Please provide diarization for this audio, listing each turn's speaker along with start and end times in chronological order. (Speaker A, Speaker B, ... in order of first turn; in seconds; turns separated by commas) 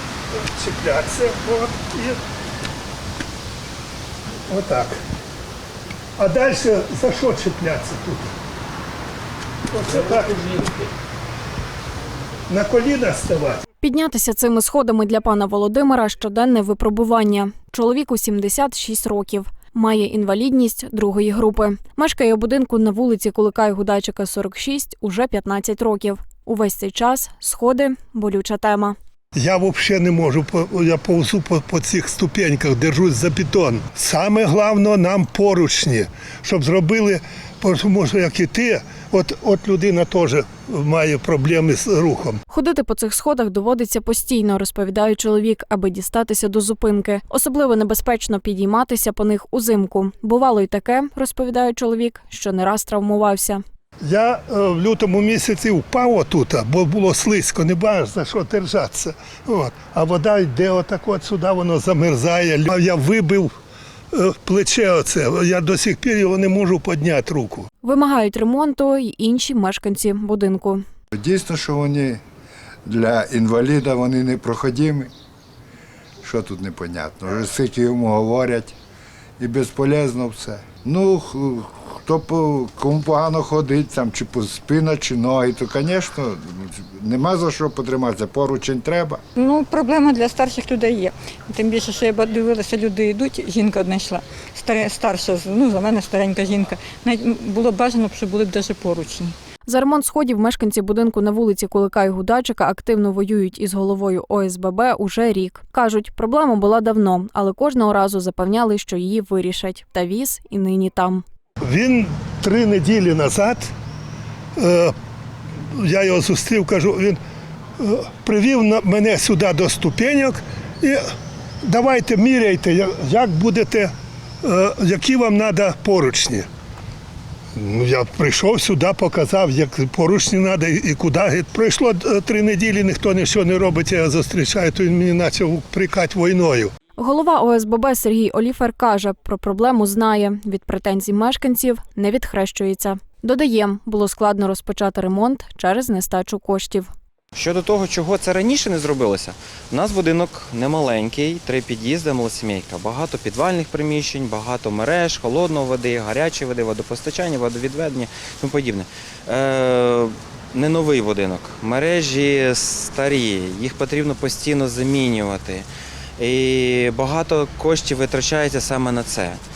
Speaker A: 0.3-2.2, Speaker A: 4.5-5.0, Speaker A: 6.2-8.3, Speaker A: 9.7-10.7, Speaker A: 12.5-13.6, Speaker B: 13.8-28.9, Speaker A: 29.3-42.4, Speaker B: 42.5-53.6, Speaker A: 54.0-63.5, Speaker A: 64.1-67.7, Speaker B: 67.8-70.8, Speaker C: 71.1-72.2, Speaker C: 72.8-75.1, Speaker C: 76.2-78.8, Speaker C: 79.4-89.2, Speaker D: 89.3-99.3, Speaker B: 99.7-111.2, Speaker A: 111.6-113.7, Speaker A: 114.5-114.9, Speaker A: 115.7-117.2, Speaker A: 117.8-121.0, Speaker A: 121.6-126.5, Speaker A: 127.5-136.7, Speaker B: 137.0-146.9, Speaker E: 147.3-165.7, Speaker E: 166.2-169.4